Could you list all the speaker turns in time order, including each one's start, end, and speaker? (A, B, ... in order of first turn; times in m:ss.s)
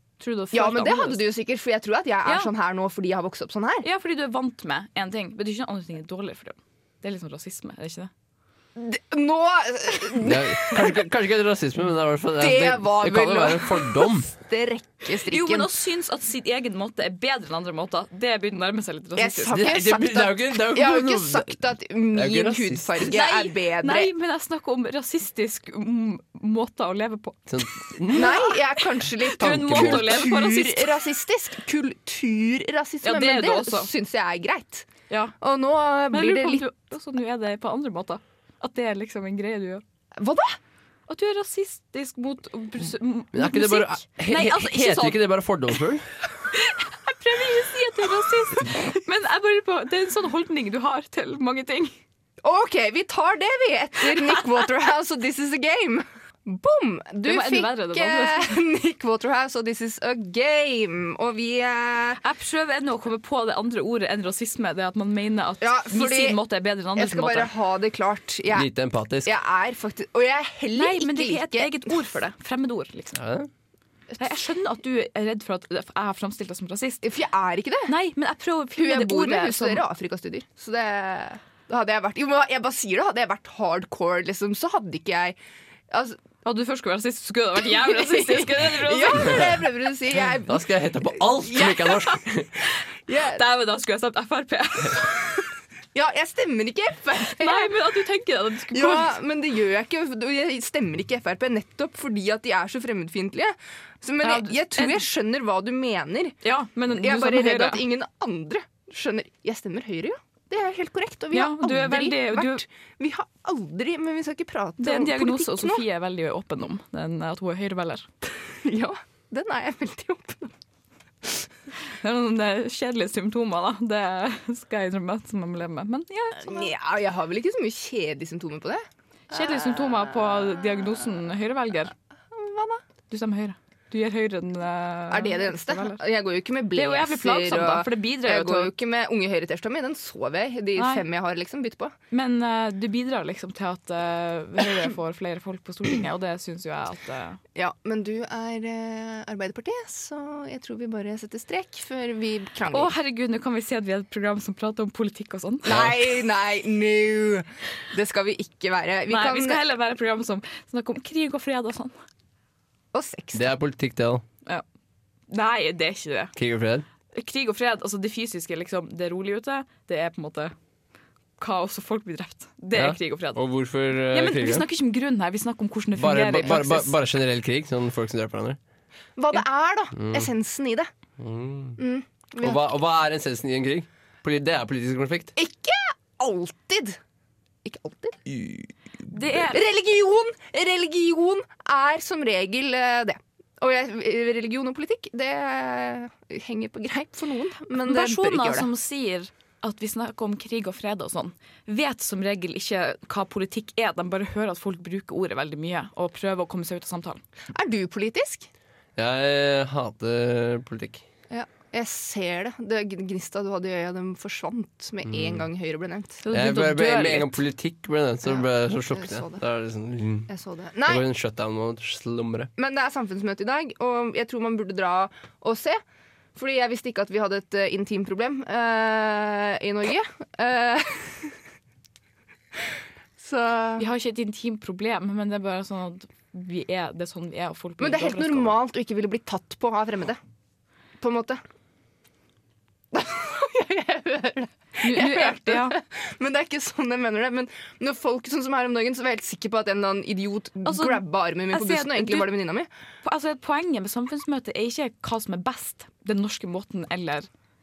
0:00.2-0:01.2 A
0:00.5-0:03.9 B
0:02.2-0:02.5 A
0:03.8-0:08.1 A
0:08.8-0:11.0 B
0:10.2-0:14.3 C
0:12.4-0:15.7 B
0:15.3-0:19.6 A
0:19.2-0:24.1 B
0:19.5-0:21.6 C
0:22.1-0:23.0 C
0:23.1-0:28.6 A
0:27.5-0:28.4 C
0:28.1-0:34.9 B
0:29.3-0:31.0 A
0:29.4-0:30.3 C
0:33.0-0:33.9 A
0:35.1-0:35.4 A
0:35.4-0:36.6 B
0:36.1-0:39.8 A
0:40.2-0:40.6 B
0:41.1-0:45.2 A
0:43.3-0:46.1 C
0:46.5-0:51.9 A
0:52.4-1:02.2 B
0:57.2-0:58.6 A
1:02.2-1:07.5 A
1:05.6-1:06.4 B
1:07.0-1:08.7 B
1:08.5-1:09.3 C
1:09.2-1:11.9 B
1:10.8-1:13.2 A
1:13.1-1:13.5 C
1:14.2-1:17.0 A
1:17.0-1:17.9 B
1:17.9-1:19.8 A
1:18.8-1:25.4 B
1:25.9-1:26.2 B
1:26.4-1:29.6 A
1:27.6-1:30.6 B
1:30.3-1:32.6 C
1:31.1-1:32.1 B
1:33.1-1:33.4 B
1:33.1-1:35.4 A
1:35.9-1:37.7 B
1:37.2-1:39.2 A
1:38.7-1:46.4 B
1:44.2-1:45.0 A
1:46.4-1:47.8 A
1:46.9-1:55.8 B
1:51.3-1:52.6 A
1:54.8-1:58.1 A
1:58.6-2:00.5 B
2:02.0-2:06.7 A
2:06.4-2:10.6 B
2:09.3-2:11.9 A
2:12.3-2:12.8 B
2:13.1-2:16.0 A
2:15.1-2:21.9 B
2:16.7-2:18.7 A
2:20.8-2:21.0 A
2:22.1-2:27.4 A
2:27.6-2:32.9 B
2:32.7-2:35.8 A
2:35.6-2:39.6 B
2:35.7-2:36.0 C
2:39.1-2:41.9 A
2:42.9-2:43.5 B
2:43.3-2:44.2 C
2:45.3-2:46.3 A
2:46.4-2:46.9 C
2:47.1-2:50.5 A
2:51.4-2:53.4 A
2:52.7-2:54.6 C
2:54.1-2:56.9 A
2:56.0-2:58.6 C
2:59.2-3:00.9 B
2:59.9-3:00.3 C
3:01.2-3:01.8 C
3:01.8-3:02.6 B
3:02.4-3:05.3 C
3:05.4-3:07.0 B
3:07.6-3:08.6 B
3:09.1-3:09.6 A
3:09.3-3:18.7 B
3:17.8-3:27.2 A
3:27.5-3:28.5 B
3:29.0-3:31.0 C
3:31.3-3:36.2 B
3:35.1-3:35.4 C
3:36.2-3:37.4 A
3:36.3-3:40.3 C
3:38.2-3:39.4 B
3:40.3-3:41.0 B
3:40.9-3:42.5 C
3:42.6-3:45.8 B
3:46.4-3:51.4 B
3:53.2-3:53.8 B
3:53.8-3:58.6 A
3:57.8-4:00.2 B
4:01.0-4:01.4 B
4:02.9-4:12.7 B
4:04.8-4:05.8 A
4:10.6-4:12.3 A
4:13.0-4:17.3 A